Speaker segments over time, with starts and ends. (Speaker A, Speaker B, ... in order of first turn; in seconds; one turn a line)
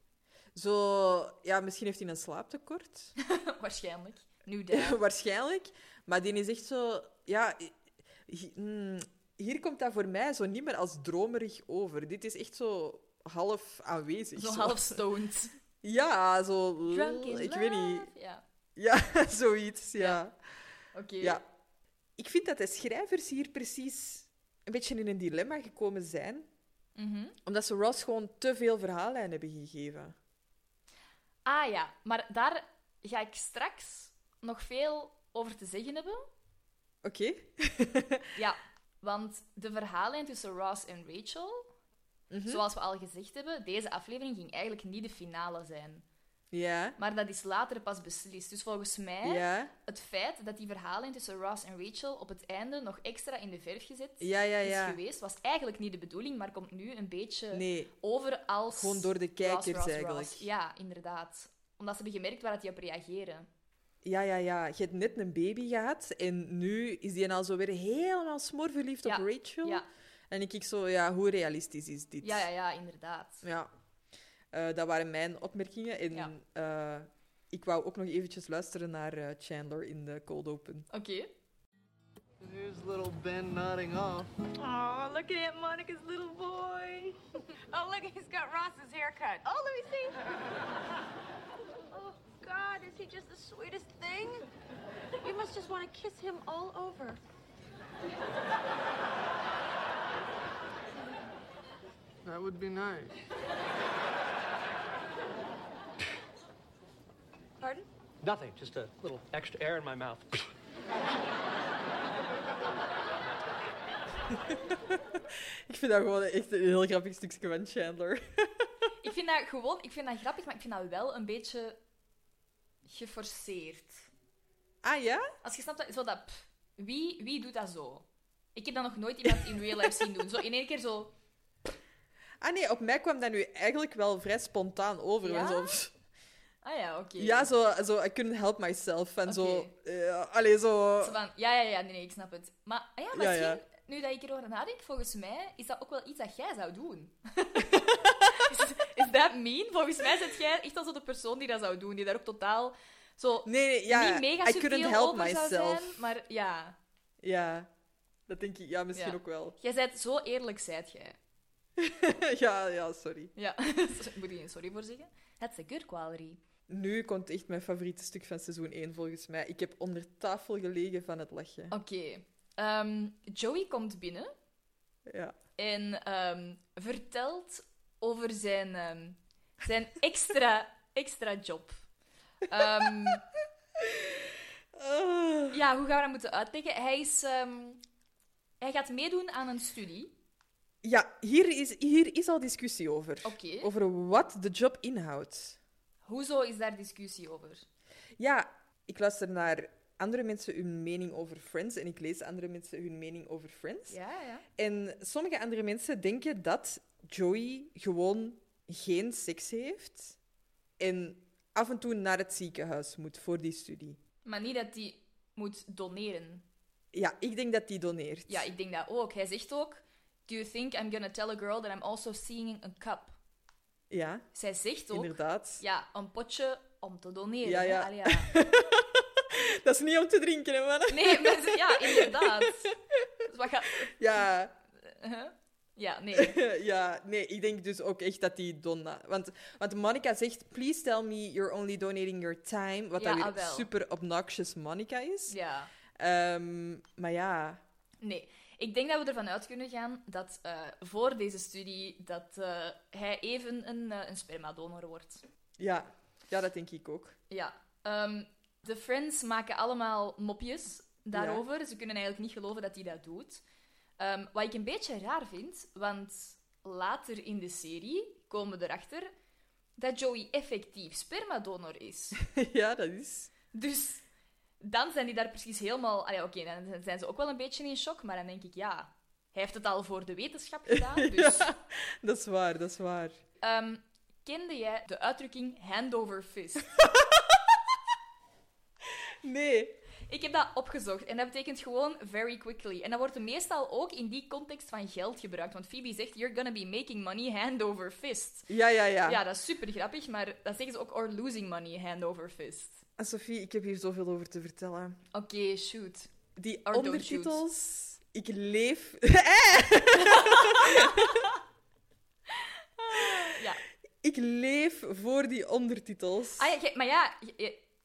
Speaker A: 0.5-3.1
Speaker B: 3.2-5.0
Speaker A: 4.7-7.7
Speaker A: 8.3-15.0
Speaker B: 14.3-15.6
Speaker A: 15.8-18.1
Speaker B: 16.9-18.4
Speaker A: 18.8-20.4
Speaker B: 20.9-21.4
Speaker A: 22.2-26.5
Speaker B: 26.9-27.4
Speaker A: 27.4-30.1
Speaker B: 31.4-36.2
Speaker A: 37.0-38.2
Speaker B: 38.4-41.7
Speaker A: 42.3-42.6
Speaker B: 42.5-46.0
Speaker A: 46.5-47.0
Speaker B: 47.0-63.5
Speaker A: 49.2-49.7
Speaker A: 54.2-55.0
Speaker A: 57.5-57.9
Speaker A: 58.7-60.5
Speaker A: 64.0-72.5
Speaker B: 69.0-69.8
Speaker B: 72.2-73.4
Speaker A: 73.4-73.7
Speaker A: 74.5-80.9
Speaker B: 80.9-81.3
Speaker C: 82.4-84.3
Speaker D: 84.6-87.2
Speaker D: 87.7-90.3
Speaker D: 91.9-94.5
Speaker D: 95.2-97.2
Speaker C: 102.2-103.2
Speaker D: 107.6-107.8
Speaker E: 108.2-110.5
Speaker A: 115.7-118.7
Speaker B: 119.0-121.8
Speaker B: 122.8-124.1
Speaker A: 124.8-125.3
Speaker B: 125.4-131.1
Speaker A: 132.4-135.9
Speaker B: 135.2-135.8
Speaker B: 136.6-137.5
Speaker A: 137.2-141.2
Speaker B: 139.2-139.7
Speaker B: 141.0-156.8
Speaker A: 143.1-143.6
Speaker A: 147.7-148.4
Speaker A: 153.4-156.0
Speaker A: 157.2-157.7
Speaker A: 158.3-159.6
Speaker B: 158.9-161.2
Speaker A: 161.8-163.3
Speaker B: 163.3-166.4
Speaker A: 166.7-171.7
Speaker B: 171.7-174.3
Speaker A: 175.1-175.3
Speaker B: 175.6-181.8
Speaker B: 182.5-183.2
Speaker A: 184.8-185.6
Speaker B: 185.5-187.8
Speaker B: 188.6-190.1
Speaker A: 190.8-195.6
Speaker B: 193.2-193.7
Speaker B: 196.0-197.7
Speaker A: 198.2-204.0
Speaker B: 203.9-204.4
Speaker A: 204.6-210.2
Speaker A: 210.8-214.0
Speaker B: 214.2-216.4
Speaker A: 216.9-218.4
Speaker B: 218.3-223.2
Speaker A: 223.9-224.2
Speaker B: 224.3-228.5
Speaker A: 224.9-225.6
Speaker A: 227.4-232.4
Speaker B: 230.9-233.9
Speaker A: 234.0-234.5
Speaker B: 234.8-236.4
Speaker A: 236.2-245.3
Speaker B: 243.0-243.7
Speaker B: 245.3-245.7
Speaker A: 246.0-247.6
Speaker B: 248.0-255.2
Speaker A: 255.6-257.2
Speaker B: 257.3-263.4
Speaker A: 261.1-261.4
Speaker B: 264.0-269.1
Speaker B: 269.8-272.2
Speaker A: 272.3-273.3
Speaker B: 273.5-274.1
Speaker B: 274.6-281.5
Speaker A: 280.7-283.2
Speaker B: 283.4-286.7
Speaker A: 286.8-287.4
Speaker A: 289.2-289.8
Speaker B: 290.1-298.5
Speaker A: 298.5-299.2
Speaker B: 299.0-302.9
Speaker A: 303.0-305.0
Speaker B: 305.1-306.1
Speaker A: 306.4-311.2
Speaker B: 306.7-307.4
Speaker B: 310.0-311.3
Speaker B: 312.4-313.6
Speaker A: 314.0-316.4
Speaker B: 316.4-317.6